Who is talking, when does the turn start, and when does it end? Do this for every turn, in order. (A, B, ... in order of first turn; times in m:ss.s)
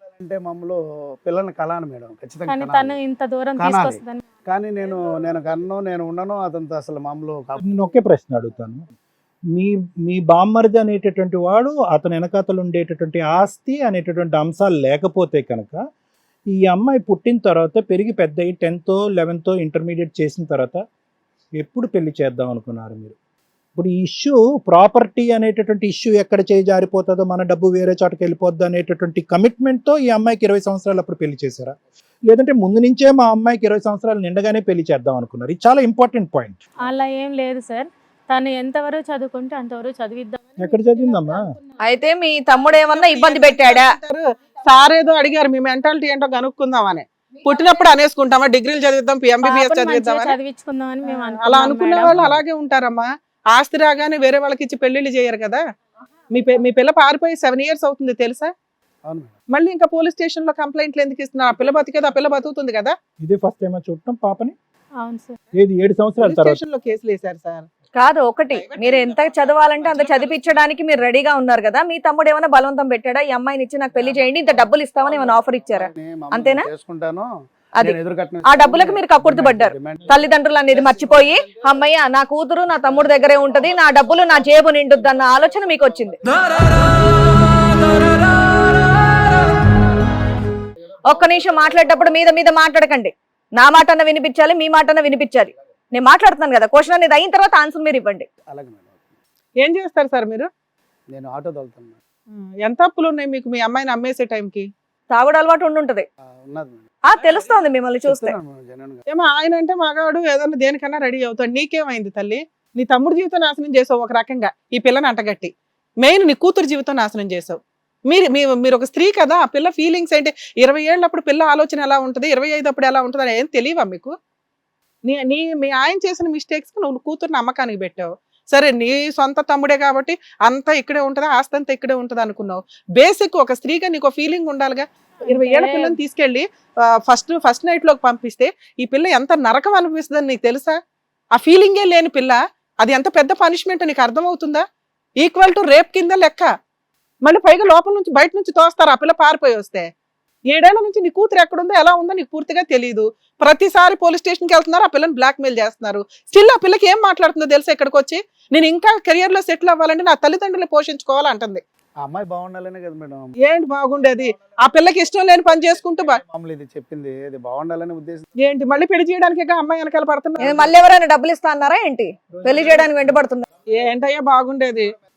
0:00.2-0:03.0 A
0:02.5-0:04.3 B
0:03.6-0:07.6 A
0:07.6-0:08.8 C
0:09.5-0:15.8 C
0:16.5-0:20.8 C
0:21.6-0:23.2 C
0:23.8-0:36.7 C
0:36.8-0:41.6 B
0:40.6-0:41.4 C
0:41.8-0:44.0 D
0:42.7-0:50.4 E
0:49.4-0:52.2 B
0:51.0-0:55.6 E
0:52.1-0:52.4 A
0:56.3-0:58.5 E
0:59.0-0:59.3 A
0:59.5-1:02.9 E
1:03.2-1:04.6 C
1:05.0-1:05.4 B
1:05.5-1:06.6 C
1:06.2-1:07.7 E
1:07.9-1:16.7 D
1:08.6-1:09.2 E
1:15.2-1:17.3 A
1:17.8-1:26.2 D
1:17.8-1:20.2 A
1:31.1-1:38.3 D
1:38.5-1:39.2 A
1:39.6-1:40.5 E
1:41.1-1:42.0 A
1:42.3-1:44.7 E
1:45.1-1:46.0 D
1:46.4-1:46.9 A
1:47.0-1:48.3 D
1:48.0-1:49.0 A
1:49.1-2:04.1 E
2:05.0-2:20.8 E
2:15.2-2:15.9 B
2:21.3-2:24.6 E
2:25.2-2:26.5 E
2:27.2-2:29.9 E
2:30.5-2:41.6 E
2:42.0-2:43.3 A
2:43.4-2:46.2 E
2:46.2-2:48.3 A
2:48.4-2:50.7 E
2:50.4-2:53.4 D
2:52.3-2:53.2 C
2:53.7-2:54.9 E